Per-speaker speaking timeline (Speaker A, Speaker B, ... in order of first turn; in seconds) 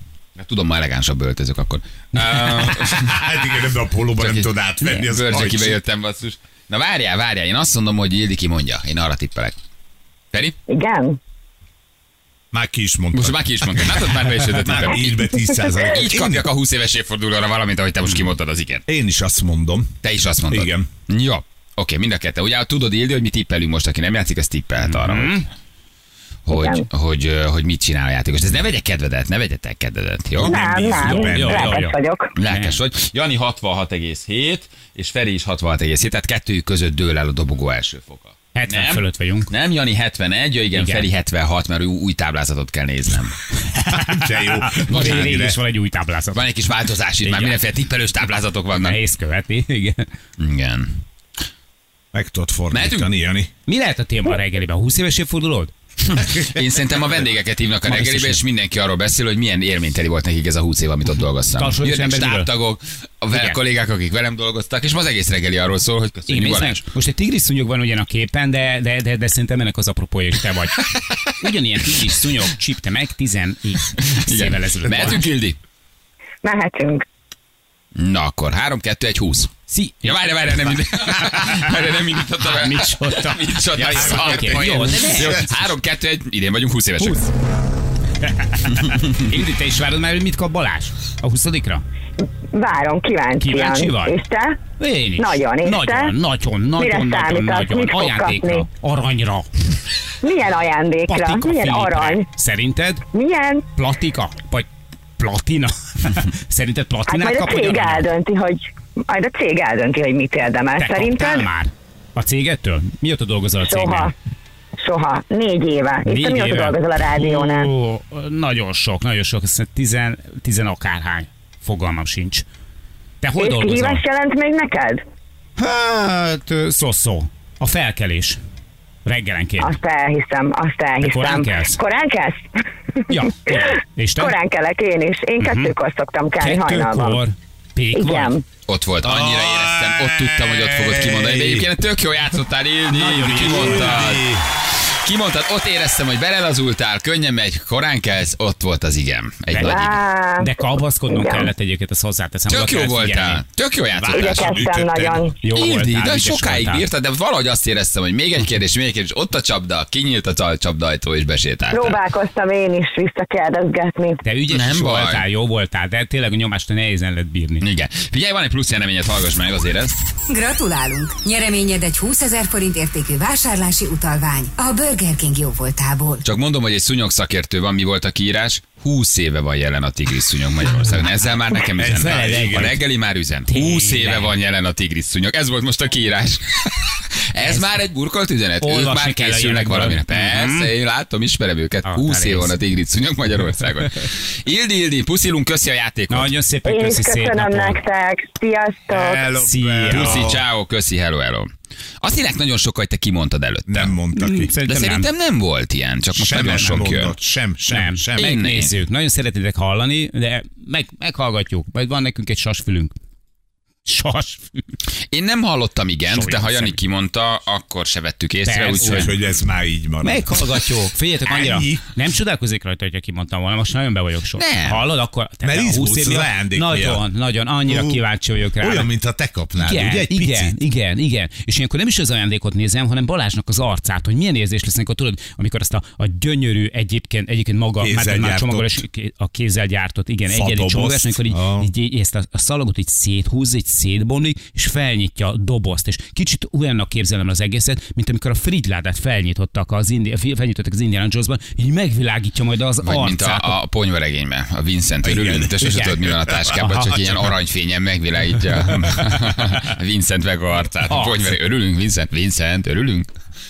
Speaker A: 0.3-3.4, 4.2-9.6, 13.1-15.2, 15.9-18.8, 20.0-25.4, 26.4-30.7, 32.4-43.4, 44.9-45.5, 46.3-49.0, 50.4-51.0, 52.7-53.1, 56.0-66.8, 74.0-75.6, 77.9-87.3, 88.8-89.2, 138.7-150.0, 152.5-154.6, 155.4-162.0, 164.5-165.2, 167.6-169.9, 176.2-196.3, 199.9-201.5, 202.0-203.9, 204.7-207.2, 208.2-208.7, 215.1-219.1, 224.4-224.8, 252.8-263.1
Speaker B: 2.8-5.8, 12.5-16.5, 18.9-20.0, 20.5-20.9, 30.4-31.7, 43.8-45.6, 52.1-53.5, 83.8-85.4, 139.0-141.7, 143.3-144.5, 153.9-155.3, 181.8-182.8, 198.9-200.4, 203.7-204.5, 206.1-208.3, 218.8-220.5, 221.2-221.8, 225.4-227.0, 227.7-228.0, 228.6-230.6, 237.8-238.8, 240.3-241.7, 255.0-255.6
Speaker C: 10.7-11.2, 26.5-26.9, 30.4-32.3, 76.4-77.0, 92.5-94.6, 95.2-96.1, 96.8-98.7, 100.2-102.3, 103.1-103.6, 107.1-111.5, 113.6-114.1, 114.8-117.7, 123.4-125.0, 129.6-132.5, 133.1-137.2, 137.9-138.4, 149.6-150.6, 151.1-151.5, 154.1-155.3, 161.7-164.2, 196.7-199.3
Speaker D: 24.8-25.5, 31.0-31.9, 32.5-32.8, 38.5-39.5, 40.7-41.1, 43.7-46.4, 47.2-47.5, 48.7-50.1, 53.7-55.7, 57.8-58.4, 61.6-62.5, 63.3-63.6, 66.3-75.2, 79.7-80.1, 81.2-81.8, 82.4-85.5, 87.0-87.3, 88.2-91.8, 93.4-94.2, 94.8-99.5, 101.1-103.0, 103.8-108.1, 110.8-114.1, 116.0-122.4, 123.2-124.0, 125.6-128.4, 129.0-129.8, 131.0-131.8, 133.1-134.4, 135.4-135.7, 136.4-138.3, 142.9-144.2, 149.5-153.4, 155.4-156.8, 164.2-167.6, 183.5-184.3, 188.6-190.7, 191.8-192.6, 196.1-197.8, 199.4-200.3, 204.1-205.1, 206.3-206.9, 207.7-212.9, 213.8-214.6, 216.1-216.8, 218.4-219.1, 220.0-228.9, 229.6-253.5, 255.6-257.1, 260.9-261.2
Speaker E: 170.3-176.2